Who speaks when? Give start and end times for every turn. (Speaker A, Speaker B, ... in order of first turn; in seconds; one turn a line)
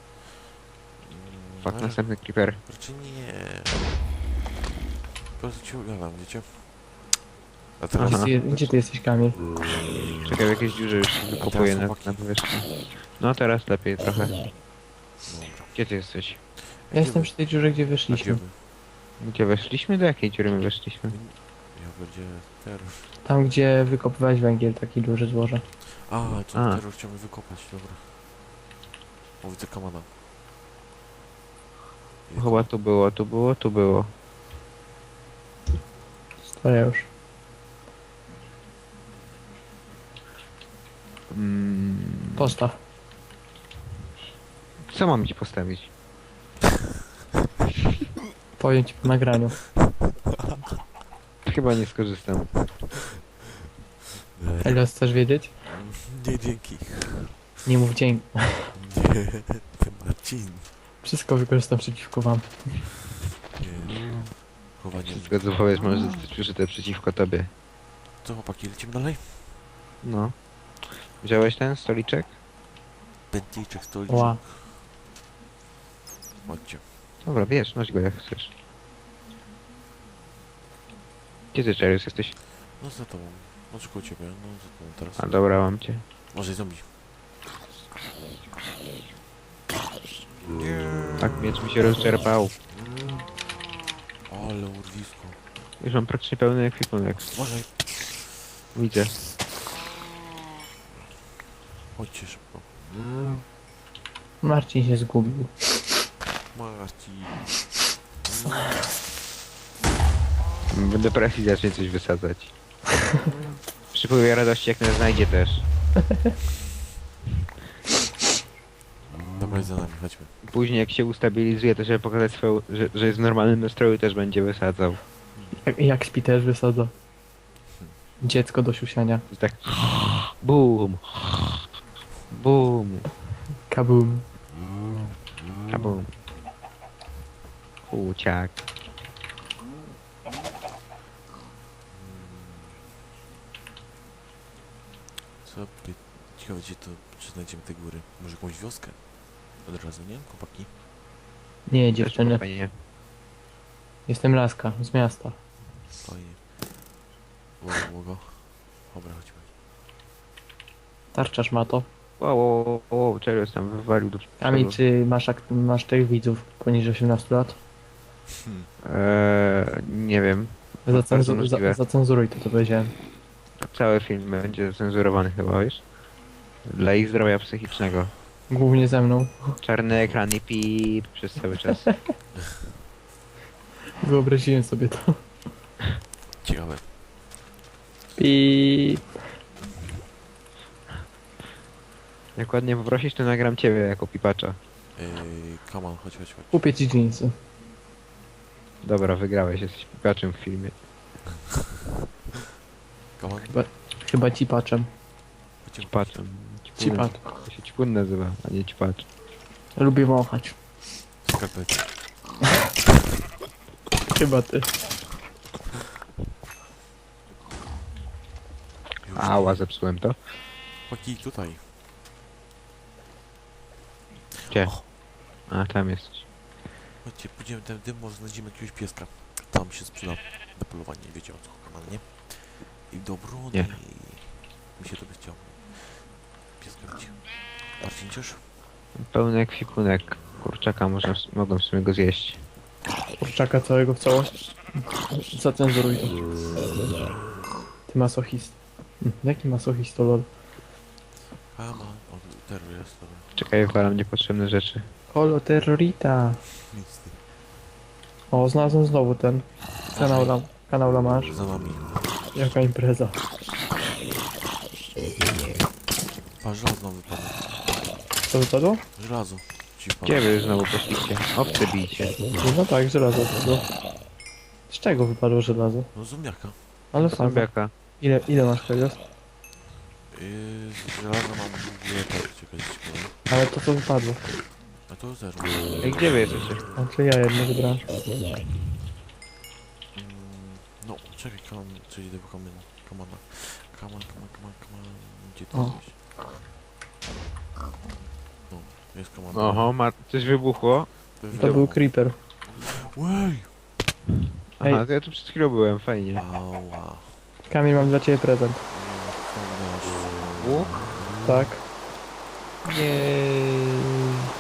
Speaker A: 1.0-4.1
Speaker B: 1.6-2.6
Speaker A: 5.4-6.7
Speaker A: 7.8-8.7
Speaker B: 8.0-8.3
Speaker C: 8.0-9.4
Speaker B: 10.2-14.4
Speaker A: 11.2-12.4
Speaker A: 15.2-15.9
Speaker B: 15.7-16.4
Speaker A: 16.6-18.6
Speaker C: 16.9-18.4
Speaker B: 19.2-21.2
Speaker A: 21.1-23.2
Speaker C: 23.2-25.6
Speaker A: 26.0-28.2
Speaker B: 26.5-26.8
Speaker A: 29.4-30.1
Speaker A: 32.3-32.7
Speaker B: 32.4-34.1
Speaker C: 36.5-37.1
Speaker B: 41.3-42.6
Speaker C: 42.4-42.8
Speaker B: 44.9-45.9
Speaker C: 48.6-49.7
Speaker A: 49.8-50.6
Speaker B: 51.5-52.6
Speaker A: 54.4-54.8
Speaker C: 54.6-55.5
Speaker A: 55.6-57.5
Speaker C: 57.7-58.7
Speaker A: 58.8-60.7
Speaker C: 61.0-62.9
Speaker A: 63.5-65.6
Speaker B: 65.1-67.5
Speaker A: 68.2-69.5
Speaker B: 70.0-70.3
Speaker B: 71.2-72.3
Speaker A: 73.3-74.8
Speaker C: 74.1-74.4
Speaker A: 76.5-76.9
Speaker B: 77.2-78.5
Speaker B: 81.5-82.4
Speaker A: 82.8-85.5
Speaker B: 85.2-86.0
Speaker A: 86.3-86.9
Speaker A: 90.5-91.5
Speaker B: 91.2-92.6
Speaker A: 94.3-95.4
Speaker B: 95.8-97.4
Speaker A: 97.2-98.2
Speaker B: 98.7-99.2
Speaker A: 100.9-102.7
Speaker C: 104.4-105.5
Speaker A: 106.5-107.6
Speaker B: 110.7-112.5
Speaker B: 113.9-115.7
Speaker A: 119.4-120.3
Speaker B: 120.4-125.0
Speaker A: 125.3-125.6
Speaker C: 125.6-126.9
Speaker C: 128.2-129.2
Speaker B: 129.3-131.3
Speaker B: 132.3-133.1
Speaker C: 133.7-134.2
Speaker B: 135.7-136.1
Speaker B: 137.8-138.6
Speaker A: 141.9-142.9
Speaker A: 145.4-150.7
Speaker C: 151.7-152.4
Speaker B: 152.0-152.7
Speaker C: 154.1-155.4
Speaker A: 156.0-156.5
Speaker A: 157.6-159.5
Speaker C: 161.1-161.9
Speaker B: 162.2-164.8
Speaker C: 164.4-167.6
Speaker A: 168.3-168.7
Speaker B: 168.8-171.8
Speaker C: 170.9-172.9
Speaker B: 173.6-175.8
Speaker B: 176.7-178.1
Speaker C: 178.5-179.6
Speaker B: 179.6-181.9
Speaker C: 181.9-182.1
Speaker C: 184.0-185.3
Speaker A: 186.4-186.9
Speaker C: 188.2-189.2
Speaker B: 192.3-194.6
Speaker A: 194.9-196.7
Speaker C: 196.5-197.3
Speaker B: 198.8-200.8
Speaker A: 201.4-201.8
Speaker A: 203.2-203.7
Speaker C: 203.5-204.9
Speaker A: 205.6-206.2
Speaker B: 205.9-209.1
Speaker C: 206.8-207.2
Speaker C: 209.8-210.6
Speaker A: 211.2-212.3
Speaker C: 214.1-214.7
Speaker A: 219.0-219.7
Speaker B: 219.2-220.2
Speaker A: 220.9-221.7
Speaker A: 224.4-224.9
Speaker B: 224.5-224.9
Speaker B: 225.4-226.2
Speaker A: 227.0-238.5
Speaker B: 239.0-242.4
Speaker A: 240.0-240.5
Speaker C: 243.2-246.2
Speaker C: 247.9-250.3
Speaker A: 251.5-253.3
Speaker B: 253.4-254.9
Speaker C: 255.1-256.4
Speaker A: 256.6-257.2
Speaker C: 258.3-261.3
Speaker A: 259.9-260.4
Speaker A: 261.3-262.2
Speaker C: 262.3-263.2
Speaker B: 265.2-265.6
Speaker A: 266.4-267.9
Speaker C: 268.3-268.9
Speaker A: 268.9-270.3
Speaker B: 270.1-272.2
Speaker C: 272.4-273.7
Speaker C: 274.7-275.9
Speaker A: 275.9-276.6
Speaker C: 276.9-277.5
Speaker B: 277.0-277.7
Speaker C: 278.0-279.0
Speaker A: 280.1-283.2
Speaker C: 283.3-284.3
Speaker A: 284.9-286.8
Speaker B: 285.8-286.6
Speaker C: 286.8-287.9
Speaker A: 289.9-296.0
Speaker A: 298.5-299.7
Speaker B: 299.3-301.6
Speaker A: 301.2-303.6
Speaker C: 301.3-302.2
Speaker B: 304.6-306.2
Speaker A: 306.1-307.3
Speaker C: 307.5-308.6
Speaker A: 308.7-311.2
Speaker B: 310.4-310.7
Speaker C: 311.2-311.6